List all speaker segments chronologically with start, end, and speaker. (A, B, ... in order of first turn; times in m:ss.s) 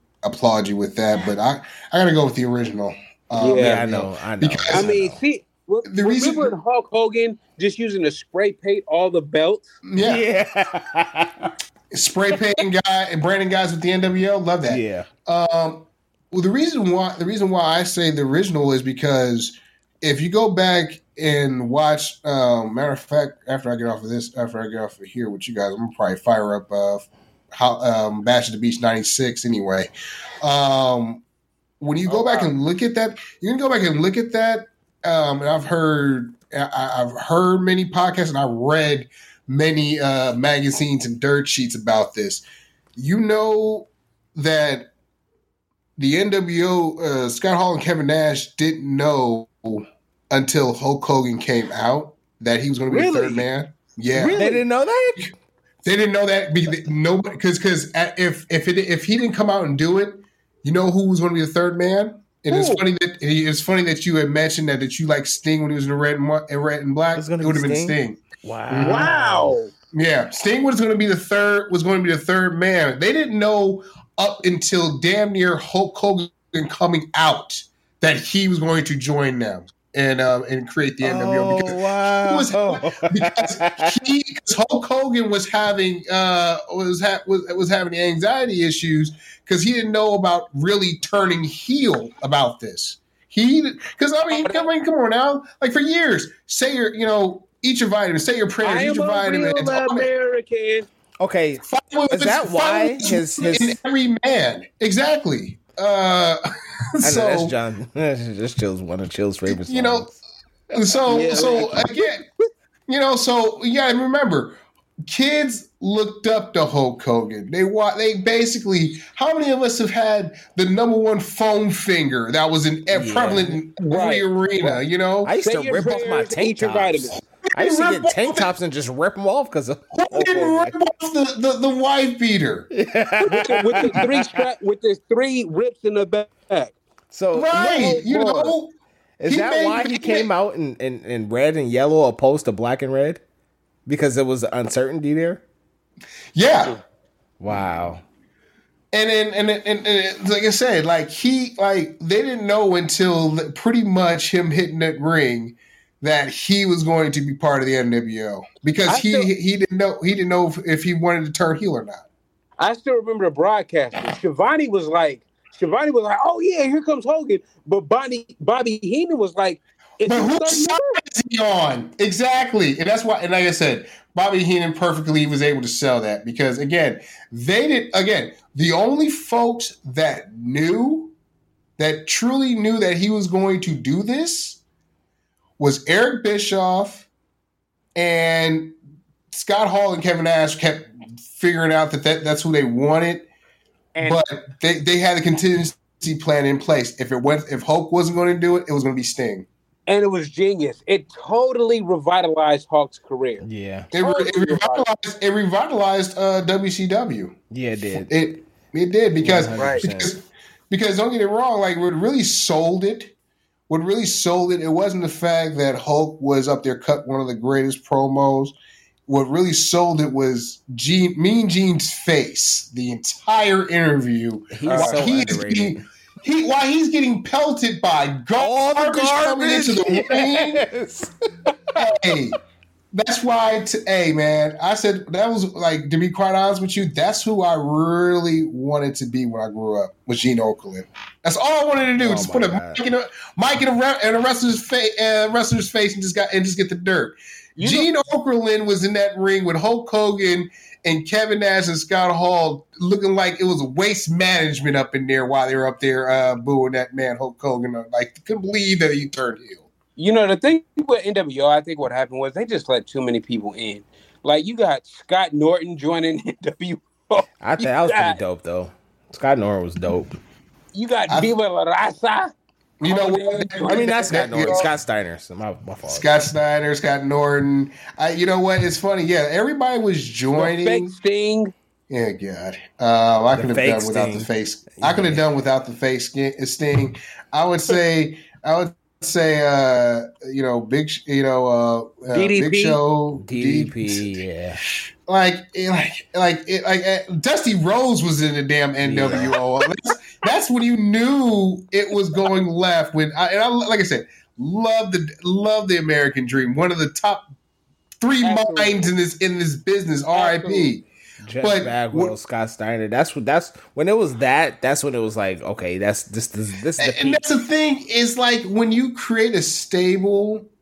0:00.2-0:04.9 A
0:03.4-0:03.8 B
0:03.4-0:05.2 C
0:04.7-0:09.7 B
0:05.8-0:06.5 A
0:09.8-0:10.2 A
0:10.0-0:11.5 C
0:11.9-0:29.9 A
0:14.6-0:15.1 C
0:30.4-0:31.2 A
0:31.8-0:42.4 A
0:32.1-0:32.5 B
0:43.0-0:44.9 A
0:46.0-0:54.4 A
0:52.9-0:53.4 B
0:54.1-0:54.6 B
0:54.3-0:55.3 C
0:55.8-1:09.1 A
1:02.5-1:02.8 B
1:07.2-1:09.6 C
1:08.8-1:09.7 B
1:09.9-1:40.1 A
1:21.0-1:24.0 C
1:34.3-1:34.6 B
1:38.6-1:40.9 B
1:41.2-1:43.8 C
1:41.6-1:46.4 A
1:47.0-1:47.5 A
1:47.0-1:50.1 C
1:49.5-1:50.2 A
1:50.7-1:52.2 A
1:51.1-1:51.8 C
1:51.1-1:52.1 B
1:52.9-1:54.5 A
1:55.1-2:05.3 A
2:02.9-2:03.6 C
2:03.9-2:04.8 B
2:05.2-2:10.7 C
2:05.4-2:07.2 B
2:07.4-2:08.5 A
2:09.9-2:12.7 A
2:12.7-2:14.4 C
2:13.2-2:16.7 B
2:17.1-2:18.5 C
2:17.3-2:18.7 A
2:19.2-2:23.2 C
2:19.2-2:20.3 A
2:23.8-2:25.4 C
2:26.3-2:26.8 A
2:27.4-2:28.0 C
2:28.9-2:42.0 A
2:38.9-2:39.3 B
2:42.6-2:51.0 B
2:50.1-3:01.1 A
3:01.8-3:04.6 A
3:05.6-3:07.1 A
3:08.0-3:08.7 A
3:09.3-3:13.3 A
3:14.0-3:14.2 B
3:14.0-3:19.5 A
3:19.9-3:23.4 B
3:23.4-3:23.9 C
3:23.9-3:27.4 A
3:24.0-3:24.8 B
3:27.5-3:28.1 C
3:28.0-3:33.1 A
3:29.2-3:30.1 C
3:29.6-3:29.8 B
3:33.7-3:38.5 A
3:39.1-3:50.6 A
3:44.5-3:45.8 C
3:44.6-3:45.1 B
3:48.4-3:51.8 C
3:51.7-3:52.4 A
3:52.9-4:19.7 A
4:02.0-4:02.8 C
4:07.6-4:07.9 B
4:20.0-4:28.2 B
4:27.4-4:30.2 C
4:30.7-4:32.3 B
4:32.8-4:34.7 A
4:32.8-4:34.6 B
4:33.6-4:36.1 C
4:35.8-4:40.9 A
4:40.4-4:41.5 B
4:41.9-4:54.1 A
4:43.4-4:45.2 C
4:52.1-4:52.8 B
4:53.2-4:54.6 C
4:55.0-5:07.3 A
4:58.8-4:59.4 C
5:08.0-5:10.8 A
5:08.2-5:08.9 B
5:10.1-5:10.7 B
5:11.2-5:17.2 C
5:11.4-5:12.2 A
5:16.8-5:20.5 A